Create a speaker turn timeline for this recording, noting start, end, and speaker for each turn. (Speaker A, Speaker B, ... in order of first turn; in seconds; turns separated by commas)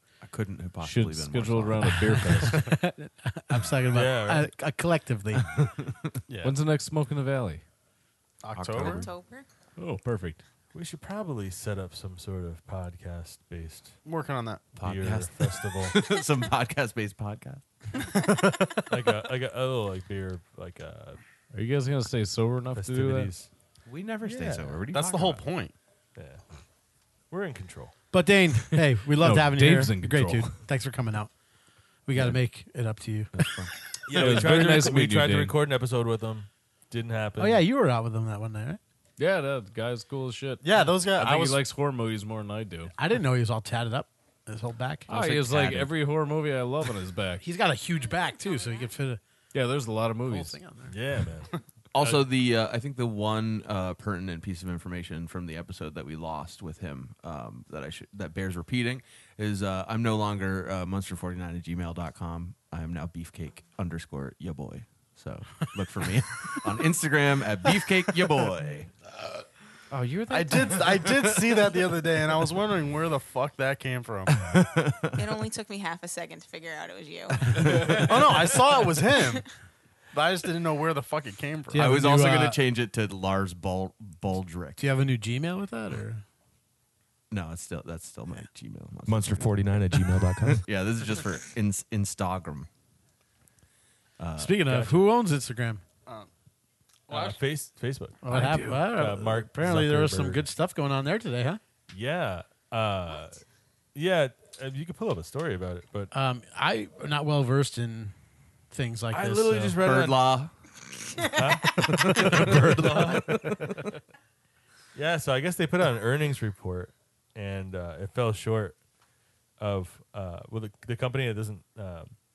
Speaker A: 0.2-2.2, Speaker B: 0.8-2.8, Speaker C: 2.2-5.5, Speaker D: 3.9-4.5, Speaker A: 5.5-6.2, Speaker E: 6.3-6.6, Speaker B: 6.4-7.6, Speaker E: 8.4-9.1, Speaker A: 8.5-9.1, Speaker F: 8.7-9.4, Speaker B: 9.8-10.4, Speaker D: 10.7-14.0, Speaker E: 14.0-14.8, Speaker A: 14.8-17.6, Speaker D: 14.8-15.9, Speaker E: 18.1-18.9, Speaker D: 18.9-21.2, Speaker B: 21.5-23.3, Speaker D: 22.7-23.5, Speaker A: 23.9-25.4, Speaker D: 24.2-24.8, Speaker E: 24.9-25.7, Speaker D: 26.1-26.4, Speaker D: 27.3-27.9, Speaker C: 28.1-31.3, Speaker B: 29.1-30.6, Speaker C: 32.0-33.3, Speaker A: 33.3-33.7, Speaker D: 34.1-37.6, Speaker B: 34.1-35.6, Speaker C: 37.4-38.8, Speaker B: 39.2-42.9, Speaker E: 40.6-41.6, Speaker C: 43.0-45.2, Speaker B: 45.1-47.4, Speaker A: 45.1-45.9, Speaker C: 47.4-49.2, Speaker F: 48.2-48.9, Speaker B: 49.5-50.6, Speaker C: 50.3-51.0, Speaker D: 50.9-52.2, Speaker A: 51.9-68.9, Speaker C: 69.9-70.7, Speaker E: 70.3-74.4, Speaker A: 71.0-71.6, Speaker A: 74.3-75.4, Speaker F: 75.1-78.1, Speaker A: 77.5-78.2, Speaker E: 77.8-79.5, Speaker E: 80.1-81.9, Speaker C: 81.7-82.6, Speaker A: 81.7-84.8, Speaker C: 84.8-86.2, Speaker A: 87.3-92.7, Speaker B: 89.1-89.4, Speaker A: 94.2-94.6, Speaker C: 94.4-95.8, Speaker D: 94.7-95.0, Speaker E: 97.1-97.4, Speaker D: 97.1-100.5, Speaker C: 98.2-101.6, Speaker D: 101.9-103.4, Speaker D: 103.9-106.1, Speaker C: 106.1-108.1, Speaker C: 108.7-109.8, Speaker D: 109.1-110.3, Speaker A: 109.8-113.9, Speaker D: 111.3-113.8, Speaker C: 112.3-112.8, Speaker D: 114.9-118.8, Speaker D: 119.6-122.1